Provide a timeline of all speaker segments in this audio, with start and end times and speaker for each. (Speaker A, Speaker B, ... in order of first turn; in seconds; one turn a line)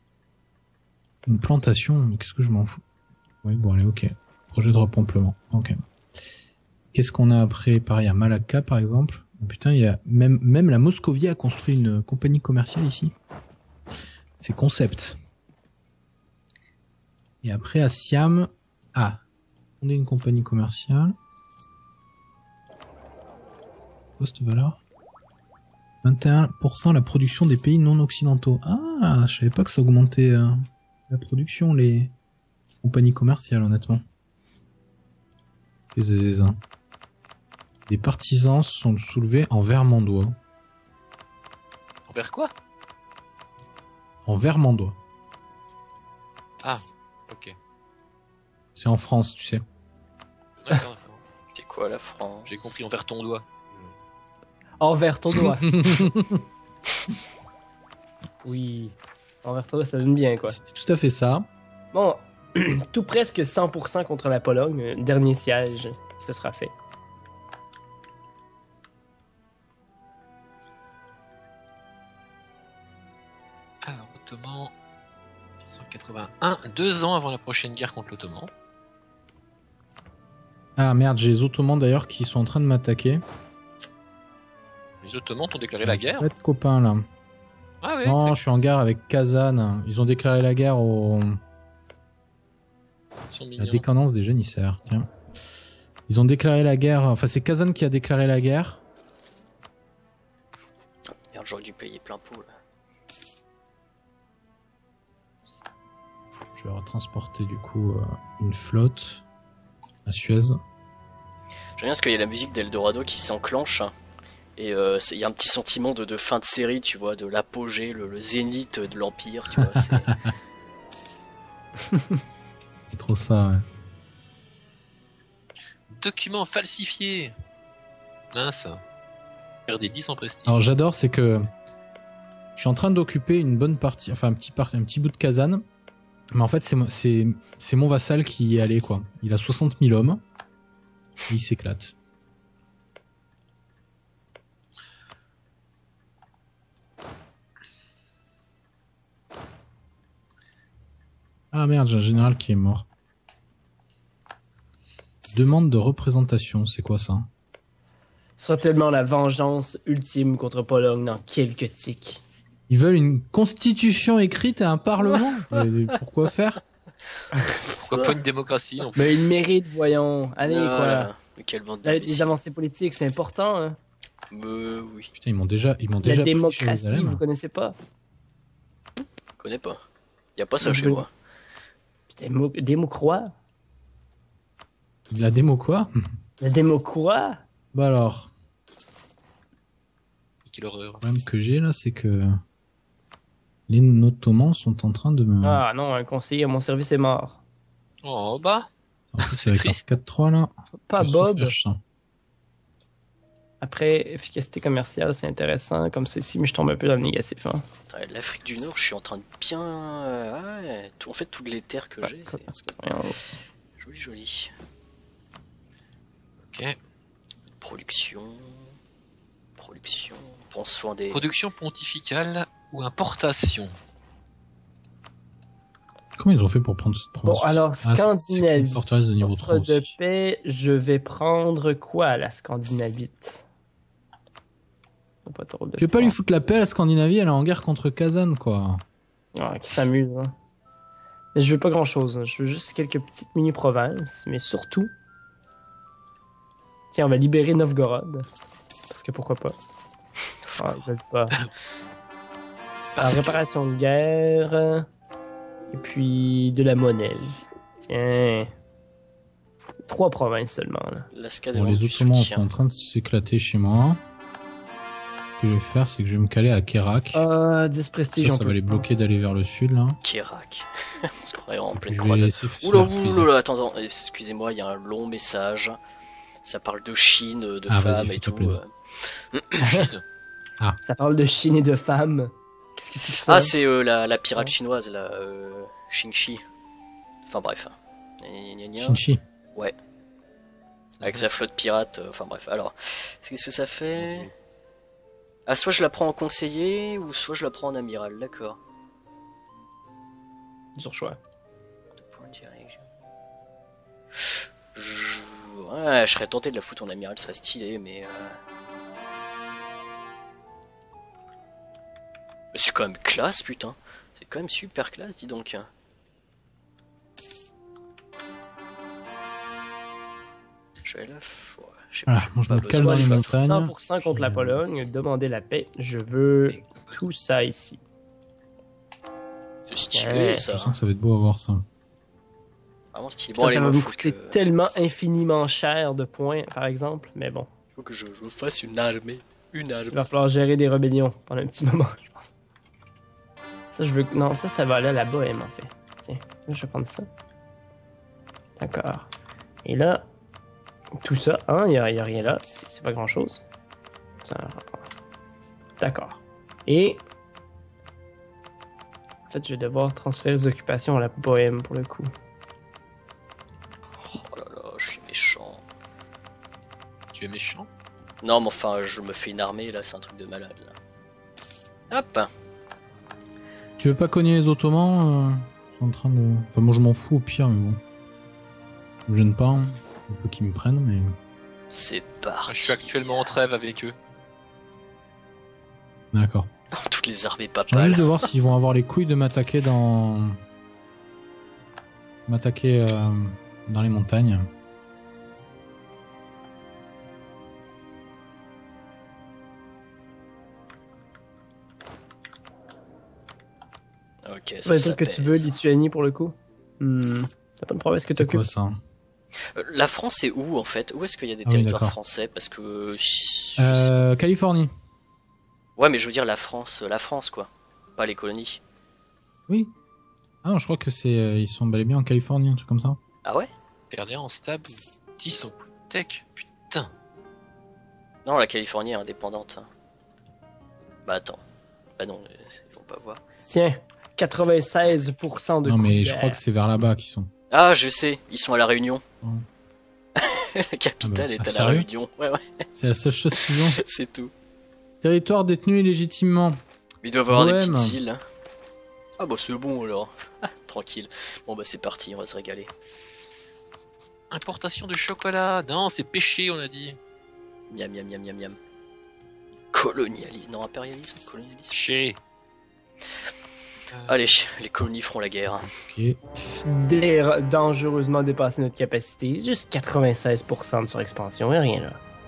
Speaker A: 1.3-2.8
Speaker A: 3.4-5.8
Speaker A: 6.9-13.2
Speaker A: 14.4-15.2
Speaker A: 17.4-19.2
Speaker A: 19.8-21.2
Speaker A: 24.2-24.8
Speaker A: 26.0-32.1
Speaker A: 32.8-34.0
Speaker A: 36.0-36.6
Speaker A: 37.9-40.4
Speaker B: 42.1-42.5
Speaker A: 44.3-45.0
Speaker B: 46.6-47.5
Speaker A: 48.8-49.6
Speaker B: 50.6-51.2
Speaker C: 51.5-52.8
Speaker B: 52.5-53.9
Speaker D: 54.8-56.1
Speaker A: 55.7-56.4
Speaker D: 58.4-60.6
Speaker A: 60.4-61.5
Speaker D: 61.9-66.7
Speaker B: 73.8-74.7
Speaker B: 75.7-78.5
Speaker A: 80.8-83.2
Speaker B: 85.0-86.3
Speaker A: 85.8-87.1
Speaker B: 87.8-88.7
Speaker A: 88.0-91.4
Speaker B: 93.3-93.8
Speaker A: 93.6-95.1
Speaker A: 96.1-98.8
Speaker C: 101.3-102.5
Speaker A: 106.6-109.2
Speaker A: 110.1-110.6
Speaker C: 111.8-113.9
Speaker C: 114.6-120.1
Speaker A: 119.9-120.3
Speaker A: 122.9-123.6
Speaker B: 125.9-127.3
Speaker B: 128.3-128.8
Speaker B: 129.7-130.6
Speaker A: 130.5-131.5
Speaker A: 132.6-135.7
Speaker A: 136.3-140.2
Speaker A: 141.3-141.9
Speaker A: 151.5-152.9
Speaker A: 155.3-157.3
Speaker D: 158.4-162.2
Speaker A: 162.7-166.6
Speaker B: 167.8-169.0
Speaker D: 169.0-171.1
Speaker C: 170.4-172.3
Speaker D: 171.8-173.8
Speaker C: 174.3-175.1
Speaker A: 175.1-177.2
Speaker D: 176.0-177.8
Speaker C: 179.4-179.8
Speaker C: 180.4-181.1
Speaker D: 180.6-181.1
Speaker D: 182.1-183.3
Speaker A: 185.1-185.9
Speaker D: 186.4-187.4
Speaker A: 187.7-188.3
Speaker B: 190.5-191.0
Speaker A: 191.0-192.4
Speaker A: 193.7-195.6
Speaker D: 195.4-197.4
Speaker B: 198.0-198.7
Speaker A: 199.1-201.8
Speaker B: 199.2-199.8
Speaker D: 200.9-201.6
Speaker D: 203.6-207.6
Speaker C: 207.9-212.7
Speaker D: 212.0-213.4
Speaker C: 213.8-214.5
Speaker B: 216.5-216.8
Speaker C: 217.6-218.7
Speaker C: 219.6-221.2
Speaker B: 221.1-223.7
Speaker A: 226.2-229.9
Speaker D: 227.2-233.4
Speaker D: 235.2-236.2
Speaker A: 235.8-238.8
Speaker D: 239.4-240.3
Speaker D: 241.3-244.9
Speaker D: 246.9-248.3
Speaker D: 248.9-249.6
Speaker C: 250.5-250.8
Speaker D: 250.6-251.3
Speaker B: 252.9-253.4
Speaker D: 253.0-254.8
Speaker D: 255.7-258.5
Speaker D: 259.8-261.1
Speaker C: 261.1-262.5
Speaker A: 261.5-264.0
Speaker A: 265.4-267.2
Speaker D: 267.1-268.9
Speaker A: 268.2-270.0
Speaker C: 270.0-275.8
Speaker A: 271.7-273.3
Speaker C: 276.4-279.6
Speaker A: 277.7-278.6
Speaker B: 279.7-280.0
Speaker D: 280.8-283.5
Speaker C: 283.2-286.4
Speaker C: 287.3-289.0
Speaker A: 288.8-289.2
Speaker C: 291.0-294.3
Speaker B: 294.0-294.3
Speaker C: 295.5-298.6
Speaker D: 300.8-301.2
Speaker C: 302.0-302.8
Speaker C: 304.2-308.4
Speaker C: 312.5-315.7
Speaker C: 320.8-323.4
Speaker A: 322.1-324.6
Speaker D: 322.7-327.8
Speaker B: 326.5-327.1
Speaker C: 329.7-330.8
Speaker D: 329.9-330.5
Speaker A: 330.5-331.7
Speaker C: 332.9-334.4
Speaker D: 333.4-337.5
Speaker C: 337.8-340.1
Speaker D: 339.9-342.3
Speaker D: 343.7-347.1
Speaker D: 348.6-349.1
Speaker D: 349.6-350.1
Speaker D: 351.0-353.5
Speaker D: 354.2-354.9
Speaker D: 355.8-357.0
Speaker D: 359.3-362.1
Speaker C: 364.0-365.6
Speaker B: 367.1-367.7
Speaker C: 368.2-370.7
Speaker C: 371.9-372.3
Speaker A: 373.8-377.8
Speaker A: 379.1-381.2
Speaker C: 381.7-383.3
Speaker B: 382.5-383.9
Speaker A: 386.1-386.5
Speaker C: 386.8-388.2
Speaker A: 387.7-390.4
Speaker A: 392.3-394.5
Speaker C: 404.2-405.5
Speaker D: 404.7-408.5
Speaker A: 408.2-408.8
Speaker C: 409.6-413.9
Speaker A: 411.5-412.0
Speaker A: 413.6-414.7
Speaker C: 415.8-418.6
Speaker A: 419.5-419.7
Speaker A: 420.4-423.0
Speaker B: 423.9-426.9
Speaker C: 428.2-429.7
Speaker C: 431.1-431.4
Speaker C: 432.0-433.2
Speaker D: 433.4-436.4
Speaker A: 435.6-437.3
Speaker C: 437.5-439.0
Speaker C: 440.2-442.4
Speaker A: 441.0-441.9
Speaker A: 442.7-443.8
Speaker C: 443.4-444.3
Speaker A: 445.0-446.6
Speaker C: 447.0-448.2
Speaker A: 447.3-448.0
Speaker C: 449.2-452.7
Speaker B: 454.3-457.0
Speaker C: 457.7-458.6
Speaker C: 459.7-461.8
Speaker B: 461.7-462.2
Speaker B: 463.9-464.2
Speaker C: 464.1-465.7
Speaker A: 465.7-466.2
Speaker D: 466.6-472.0